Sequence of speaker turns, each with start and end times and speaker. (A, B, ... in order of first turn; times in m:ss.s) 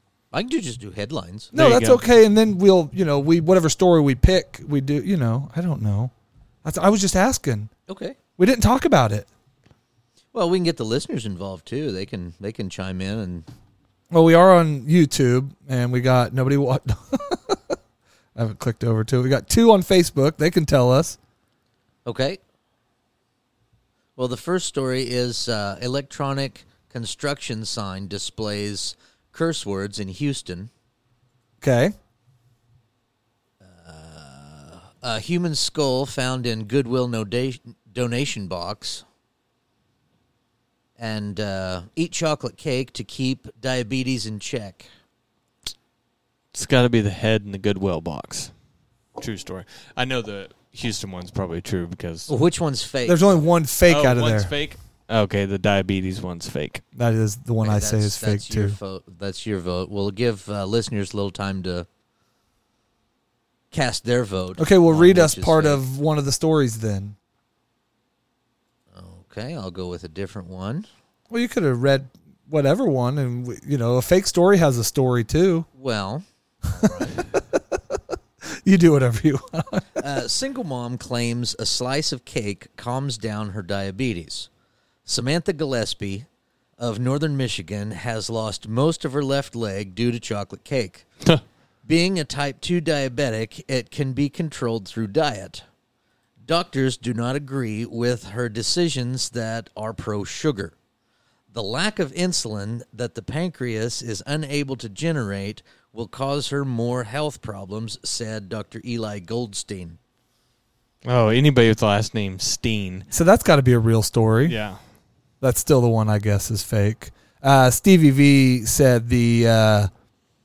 0:00.3-0:01.5 A
0:01.5-0:06.1 B
0:01.5-0:02.0 C
0:06.6-0:07.7 B
0:07.9-0:08.2 A
0:08.4-0:09.3 B
0:10.3-0:13.5 A
0:14.1-0:17.6 B
0:18.4-0:21.2 B
0:22.0-0:22.4 A
0:24.2-0:30.7 A
0:31.6-0:32.0 B
0:33.6-0:39.0 A
0:41.0-0:44.9 A
0:46.5-0:48.5 C
0:49.2-0:52.3 C
0:52.3-0:53.4 A
0:53.1-0:54.5 B
0:53.9-0:56.8 C
0:57.0-0:58.8 B
0:57.6-1:01.9 A
1:03.7-1:05.8 A
1:04.6-1:07.2 B
1:08.9-1:10.9 A
1:11.3-1:15.7 B
1:15.8-1:17.2 A
1:16.8-1:17.4 B
1:18.5-1:20.0 B
1:20.0-1:24.5 A
1:25.1-1:26.3 A
1:26.8-1:31.0 A
1:31.9-1:35.6 A
1:36.5-1:40.8 A
1:41.5-1:50.0 A
1:51.0-1:53.1 C
1:53.1-1:54.6 B
1:54.4-1:54.8 C
1:55.4-1:59.9 B